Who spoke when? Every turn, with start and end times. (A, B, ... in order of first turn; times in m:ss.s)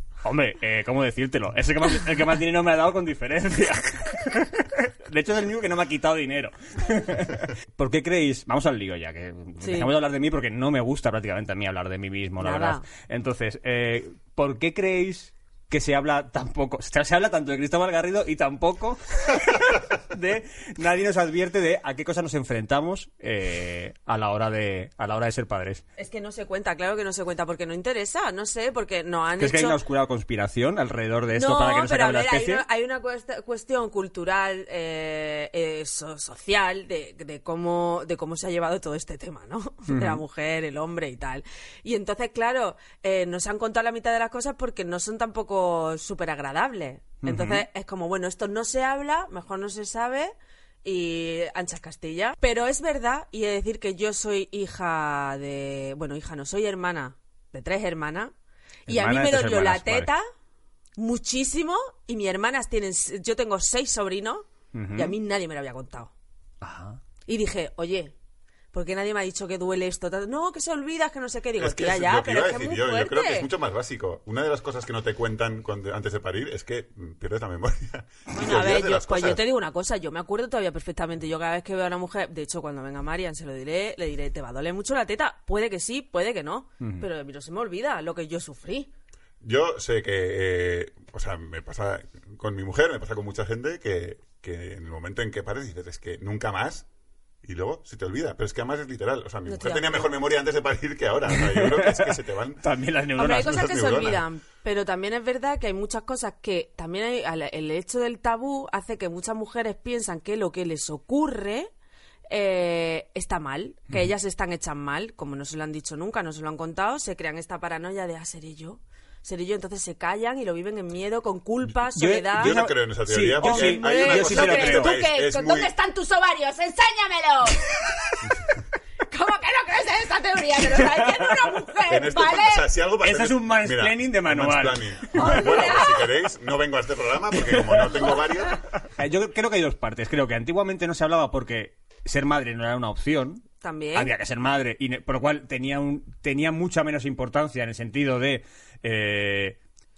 0:00.2-0:25.8 A
0:09.6-0:09.9 B
0:12.4-0:12.8 B
0:26.0-0:29.8 B
0:29.4-0:32.6 A
0:31.3-0:50.3 B
0:39.9-0:40.2 A
0:47.2-0:47.6 A
0:50.8-0:58.3 B
0:58.9-1:00.1 A
0:58.9-1:00.2 B
1:01.0-1:06.1 B
1:04.7-1:05.1 A
1:06.6-1:07.0 A
1:07.3-1:08.1 B
1:08.7-1:13.5 B
1:11.6-1:19.4 C
1:18.3-1:28.9 B
1:26.8-1:27.0 A
1:29.4-1:36.8 C
1:37.4-1:42.6 C
1:39.4-1:40.1 B
1:41.3-1:43.7 A
1:43.2-1:51.7 B
1:43.4-1:44.2 C
1:52.3-2:02.6 B
2:01.9-2:05.0 A
2:02.3-2:05.7 C
2:03.4-2:07.9 B
2:09.1-2:12.7 B
2:11.9-2:18.6 C
2:13.0-2:15.5 A
2:15.1-2:16.1 B
2:18.0-2:18.3 B
2:18.8-2:29.6 A
2:23.6-2:24.1 B